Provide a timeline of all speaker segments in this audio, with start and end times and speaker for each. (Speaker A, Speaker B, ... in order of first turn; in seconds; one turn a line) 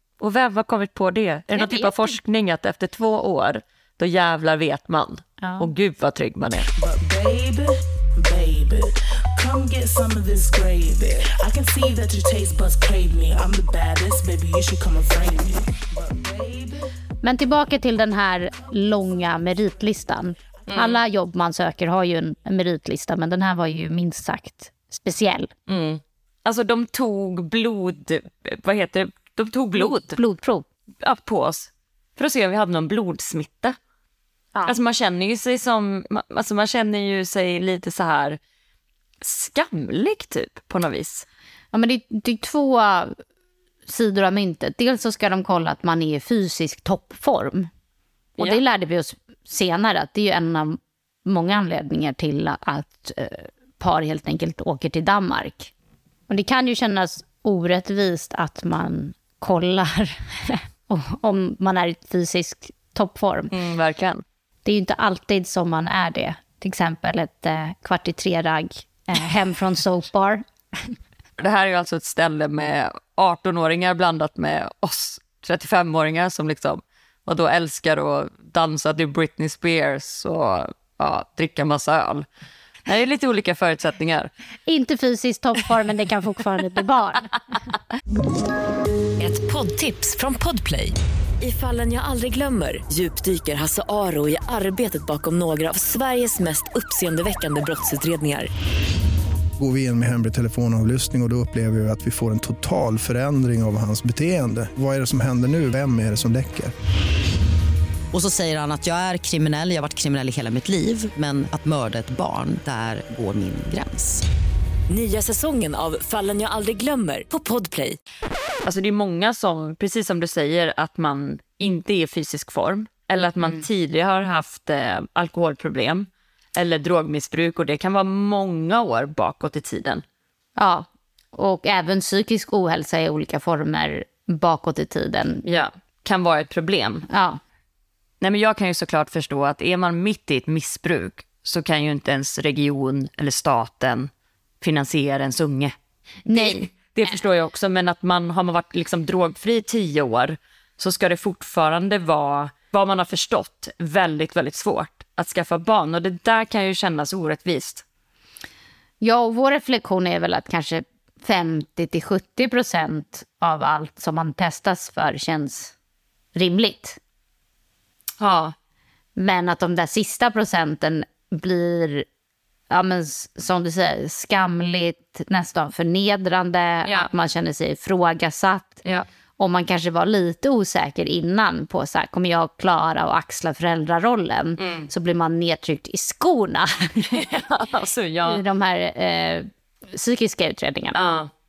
Speaker A: 0.2-6.7
Speaker B: 1.5-2.1
Speaker B: 5.4-5.7
Speaker C: 6.7-16.9
Speaker B: 17.2-25.5
Speaker A: 20.7-21.0
Speaker A: 25.7-30.2
Speaker B: 29.8-30.6
Speaker A: 31.0-33.8
Speaker A: 34.6-38.4
Speaker A: 39.2-41.2
Speaker B: 41.7-43.1
Speaker B: 43.9-47.7
Speaker B: 48.4-55.7
Speaker B: 56.3-63.5
Speaker A: 63.5-64.2
Speaker B: 64.6-71.0
Speaker A: 71.4-82.2
Speaker A: 82.8-84.3
Speaker B: 84.7-87.3
Speaker D: 89.2-98.5
Speaker E: 99.6-106.7
Speaker F: 108.1-114.2
Speaker D: 114.9-118.0
Speaker A: 118.6-130.0
Speaker B: 130.6-135.4
Speaker A: 135.4-137.1
Speaker B: 137.1-137.4
Speaker A: 138.2-144.1
Speaker A: 144.6-145.7
Speaker B: 146.2-146.7
Speaker A: 146.3-157.8
Speaker B: 159.0-165.7
Speaker B: 166.3-167.0
Speaker A: 168.2-168.5
Speaker B: 169.2-172.1
Speaker B: 172.7-178.8
Speaker B: 179.4-186.9
Speaker A: 184.6-184.9
Speaker A: 187.0-188.4
Speaker B: 188.2-191.0
Speaker A: 190.9-191.3